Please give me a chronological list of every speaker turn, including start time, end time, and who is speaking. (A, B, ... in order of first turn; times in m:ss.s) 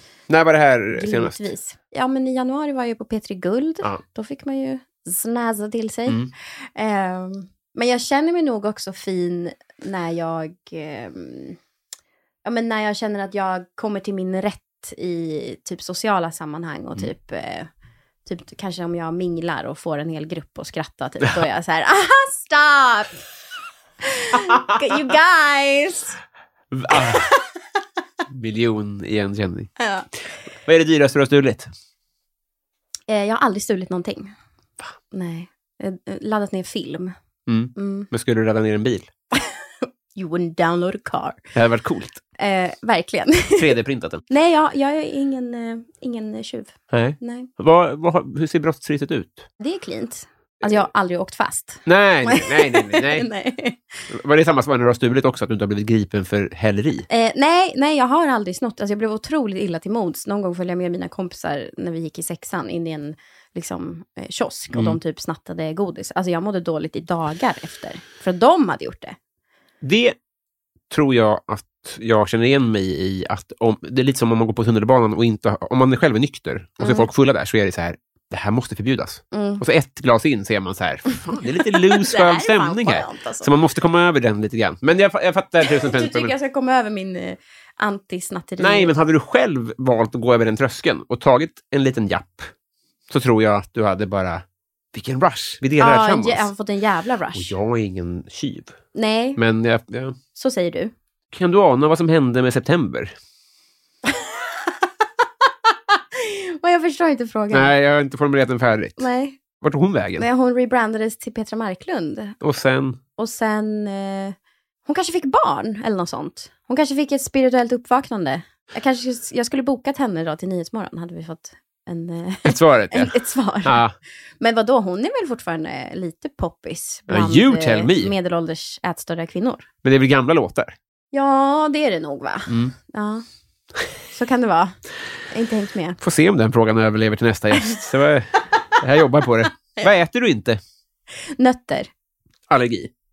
0:00.3-0:01.4 A
0:01.0-0:11.6 B
0:12.4-0:17.7 B
0:18.2-0:23.2 B
0:24.0-0:26.2 B
0:26.7-0:27.3 A
0:26.9-0:27.4 B
0:28.3-0:29.7 A
0:29.8-0:30.1 B
0:30.6-0:31.7 A
0:33.1-0:34.3 B
0:35.1-0:37.1 B
0:37.5-0:39.1 A
0:37.8-0:38.1 B
0:39.3-0:41.4 B
0:41.6-0:42.2 A
0:42.4-0:43.7 B
0:43.6-0:44.2 A
0:44.3-0:47.5 B
0:46.9-0:49.5 A
0:49.6-0:53.8 B
0:51.8-0:53.3 A
0:54.1-0:57.0 A
0:57.1-1:09.2 B
1:04.7-1:05.0 A
1:09.8-1:10.1 A
1:10.9-1:26.3 A
1:16.8-1:17.1 B
1:19.3-1:19.6 B
1:21.9-1:23.5 B
1:25.6-1:28.9 B
1:28.6-1:32.5 A
1:33.1-1:36.5 A
1:35.8-1:37.5 B
1:37.3-1:38.8 A
1:38.9-1:39.4 B
1:39.4-1:40.2 A
1:40.3-1:40.9 B
1:41.3-1:43.1 A
1:44.1-1:44.7 B
1:45.9-1:47.7 B
1:47.5-1:49.0 A
1:49.0-1:49.4 B
1:49.6-1:50.2 A
1:50.2-1:52.3 B
1:52.4-1:53.0 A
1:53.2-1:54.3 B
1:54.8-2:03.8 B
2:02.4-2:03.9 A
2:04.4-2:09.6 B
2:07.1-2:08.1 A
2:09.8-2:10.7 A
2:11.1-2:13.2 B
2:12.5-2:12.7 A
2:14.1-2:14.7 B
2:15.3-2:16.0 B
2:16.0-2:20.6 A
2:21.4-2:21.9 B
2:22.5-2:22.9 A